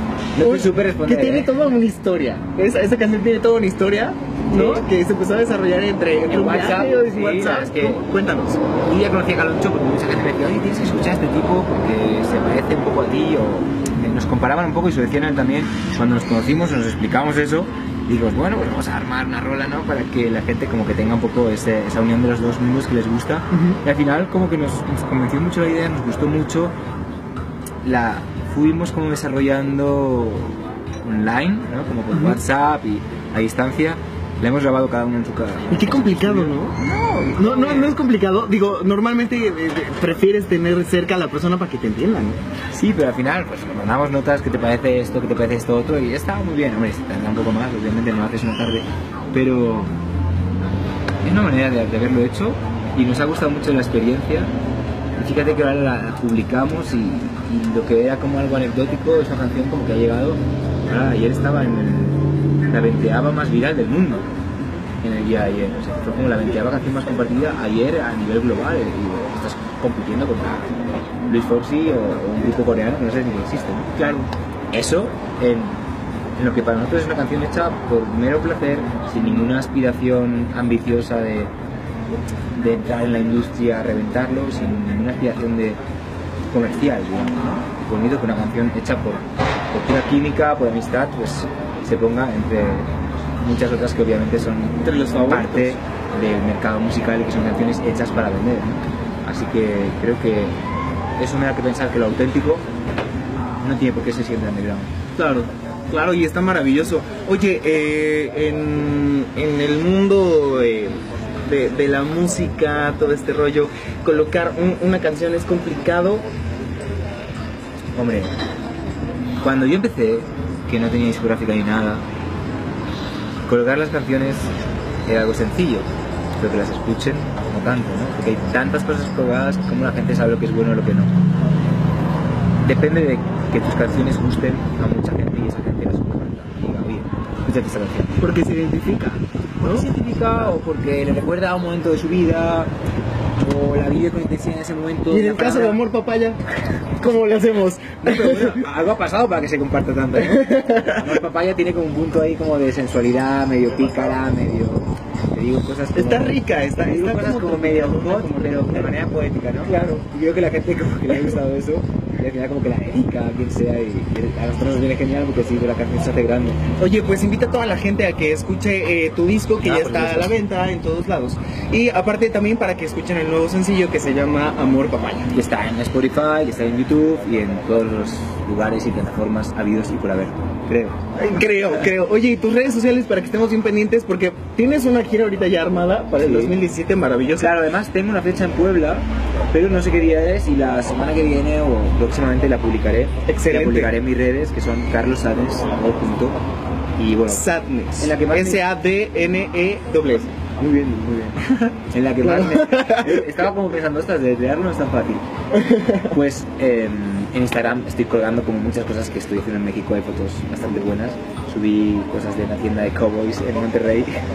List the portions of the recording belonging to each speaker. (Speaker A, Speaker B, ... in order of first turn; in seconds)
Speaker A: 0.3-1.5, 4.5-4.8, 6.2-8.0, 8.8-26.7, 27.8-38.0, 42.7-50.0, 51.2-54.5, 55.2-64.2, 65.0-70.7, 71.3-73.9, 74.7-75.8, 76.4-81.5, 82.5-85.8, 86.5-100.6, 101.2-102.6, 103.6-104.9, 118.0-118.3, 119.4-122.0, 123.5-124.5, 125.0-131.1, 132.6-138.2, 139.6-142.7, 143.3-145.8, 148.0-166.6, 169.6-170.3, 175.3-181.0, 186.2-186.5, 187.4-196.4, 197.0-197.5, 198.0-198.6, 200.6-201.4, 201.9-205.2, 206.1-214.1
Speaker B: 0.4-8.6, 23.5-23.8, 32.1-32.4, 35.7-36.8, 37.3-42.4, 74.0-74.3, 94.8-95.8, 105.2-116.2, 138.2-139.9, 145.1-146.4, 147.0-148.6, 150.2-151.1, 155.9-158.9, 159.6-160.0, 166.8-175.3, 181.2-187.5, 193.2-193.9, 197.3-200.4, 201.4-201.7, 202.2-203.5, 205.5-206.1